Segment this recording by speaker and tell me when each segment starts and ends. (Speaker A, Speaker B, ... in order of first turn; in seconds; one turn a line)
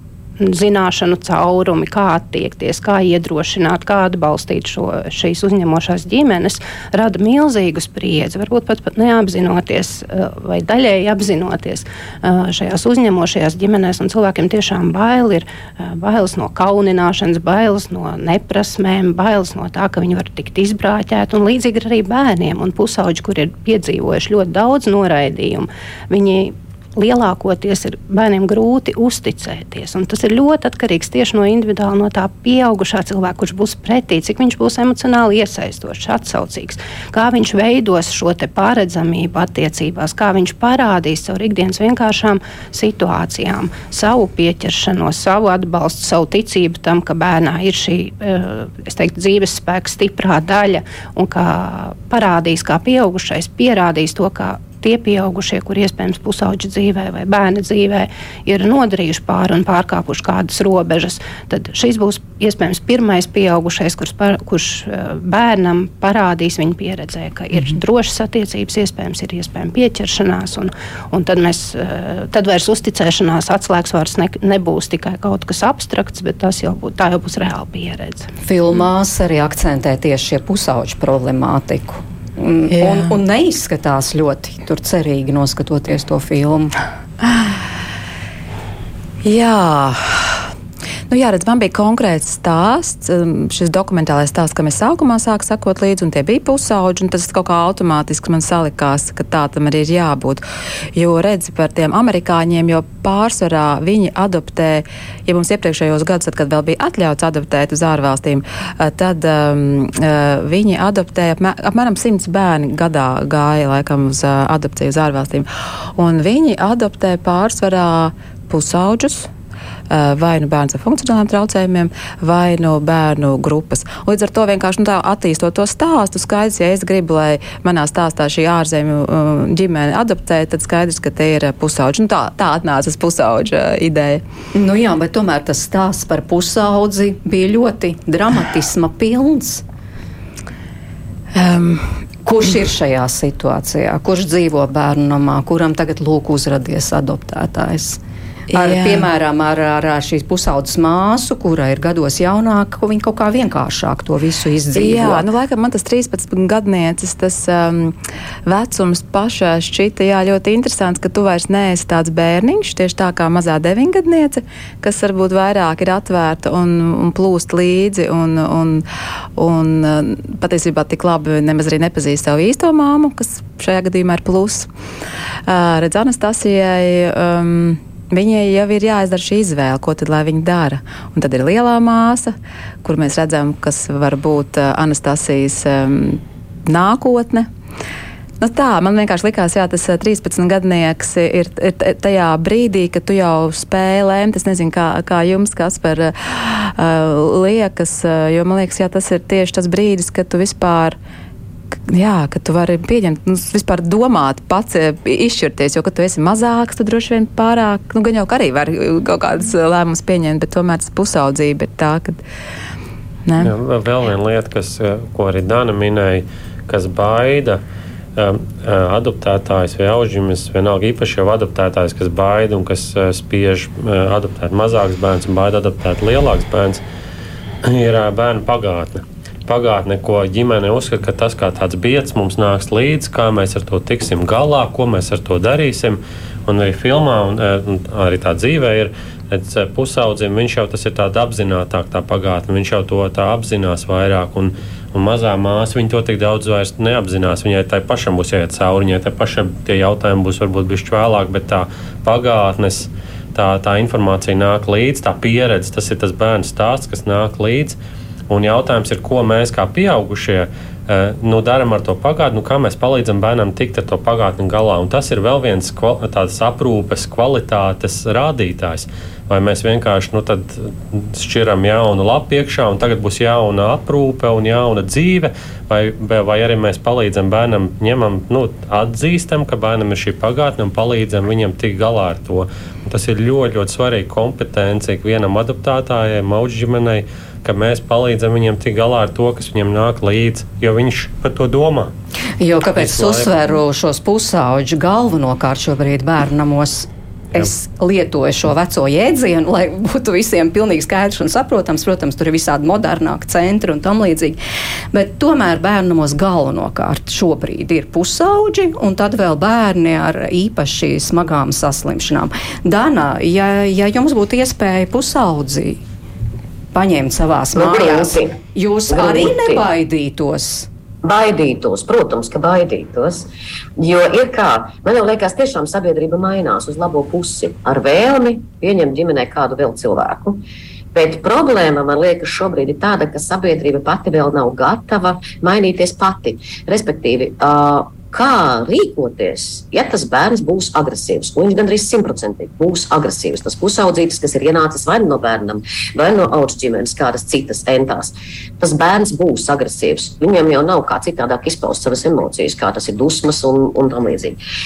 Speaker A: 0.4-78.3
Speaker B: 78.4-86.7
Speaker C: 82.7-83.2
Speaker C: 89.2-90.4
Speaker C: 91.1-100.4
Speaker C: 101.0-119.3
Speaker C: 119.9-134.2
Speaker B: 134.5-139.6
Speaker C: 141.3-141.9
Speaker B: 142.2-148.0
Speaker C: 148.5-149.1
Speaker B: 148.5-155.2
Speaker C: 154.7-168.8
Speaker C: 169.3-174.7
Speaker C: 175.5-187.5
Speaker C: 188.4-201.0
Speaker C: 201.9-212.2
Speaker C: 213.3-213.5
Speaker D: 213.4-217.6
Speaker D: 218.2-226.8
Speaker D: 227.6-257.8
Speaker D: 258.3-291.9
Speaker B: 292.4-304.4
Speaker D: 292.8-293.4
Speaker B: 304.9-315.8
Speaker B: 316.7-320.7
Speaker E: 317.5-318.4
Speaker E: 318.9-319.6
Speaker E: 321.0-330.4
Speaker E: 330.9-354.4